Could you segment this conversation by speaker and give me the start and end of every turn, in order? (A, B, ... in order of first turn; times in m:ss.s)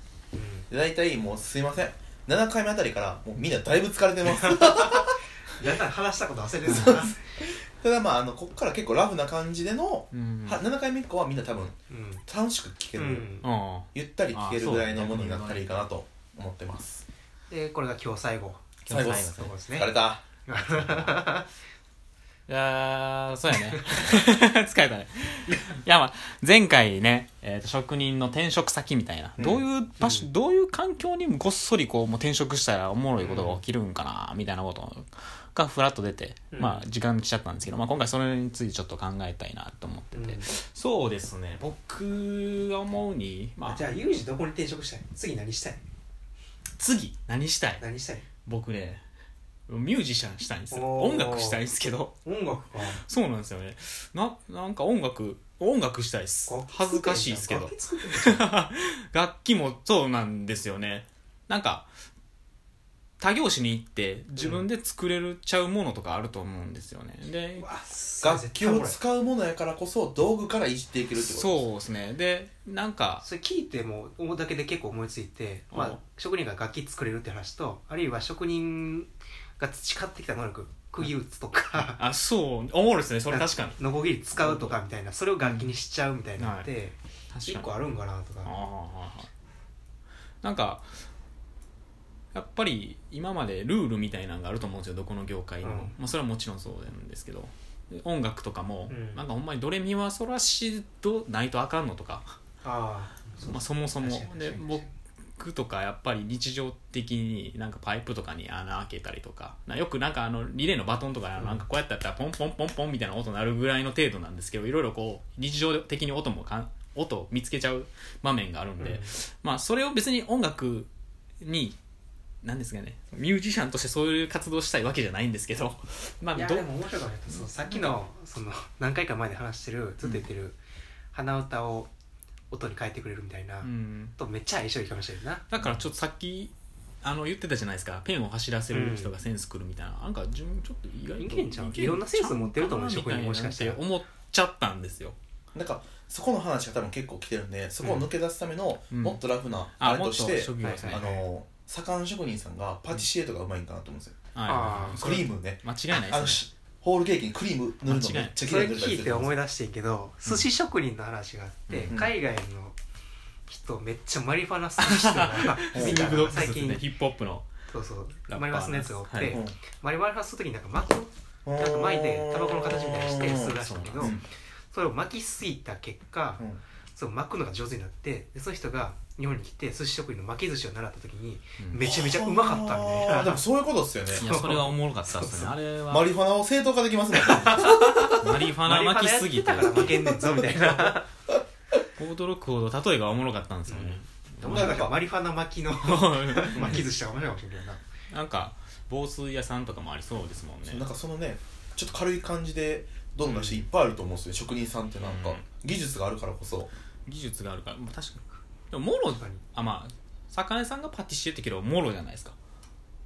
0:00.3-0:00.7 A
0:00.7-0:05.2 B
0:04.4-0:07.2 A
0:06.6-0:13.3 B
0:06.7-0:07.0 C
0:10.1-0:10.6 C
0:11.9-0:12.2 A
0:13.0-0:13.5 A
0:13.4-0:15.7 C
0:13.9-0:17.0 B
0:17.5-0:19.9 A
0:18.8-0:19.5 C
0:18.9-0:20.4 B
0:20.4-0:21.5 A
0:20.6-0:21.1 C
0:22.5-0:43.9 C
0:23.5-0:23.8 A
0:29.4-0:30.3 A
0:33.2-0:33.6 A
0:36.5-0:36.8 A
0:40.1-0:40.5 A
0:43.6-0:45.8 A
0:46.8-0:47.8 C
0:47.8-0:48.2 A
0:48.4-0:49.0 C
0:49.7-0:52.2 C
0:50.7-0:51.6 A
0:52.2-0:53.0 A
0:52.8-1:01.9 C
0:56.5-0:58.5 A
1:03.2-1:07.7 C
1:04.4-1:04.6 A
1:07.6-1:09.0 A
1:08.2-1:11.6 B
1:11.1-1:13.2 C
1:13.2-1:22.0 A
1:15.7-1:16.0 C
1:21.7-1:23.8 C
1:23.3-1:28.6 A
1:24.3-1:24.8 C
1:25.4-1:25.7 C
1:26.4-1:26.7 C
1:27.3-1:27.7 C
1:28.4-1:29.3 C
1:30.4-1:30.9 C
1:32.3-1:42.4 C
1:35.6-1:35.9 A
1:38.9-1:39.2 A
1:42.6-1:44.9 A
1:43.4-1:44.8 C
1:45.4-2:01.8 C
1:51.4-1:51.6 A
1:58.8-1:59.1 A
2:02.4-2:06.7 C
2:06.3-2:10.6 A
2:07.3-2:08.0 C
2:11.1-2:11.9 A
2:12.5-2:15.5 A
2:13.6-2:14.2 C
2:15.5-2:25.2 C
2:18.7-2:19.1 A
2:21.2-2:23.8 A
2:25.5-2:34.2 B
2:28.9-2:29.2 C
2:29.8-2:31.0 C
2:30.6-2:31.2 A
2:34.3-2:36.4 C
2:34.4-2:35.3 A
2:34.8-2:39.3 B
2:37.8-2:38.4 C
2:38.4-2:42.8 A
2:41.7-2:41.9 C
2:43.5-2:46.8 A
2:44.8-2:47.5 C
2:45.7-2:46.2 B
2:47.7-2:54.1 A
2:48.3-2:49.4 C
2:49.3-2:49.6 B
2:51.4-2:54.2 B
2:53.4-2:54.1 C
2:54.7-2:56.4 A
2:56.9-3:03.4 A
3:01.8-3:04.3 B
3:04.1-3:06.1 C
3:04.2-3:05.6 A
3:05.9-3:08.0 B
3:07.2-3:11.1 A
3:08.1-3:11.0 C
3:09.9-3:10.7 B
3:12.0-3:14.9 C
3:13.7-3:17.8 A
3:14.4-3:14.9 B
3:15.8-3:16.8 C
3:16.5-3:16.8 B
3:18.1-3:20.9 C
3:20.6-3:26.7 B
3:23.2-3:23.6 A
3:25.0-3:25.4 C
3:27.1-3:32.4 C
3:29.2-3:29.4 A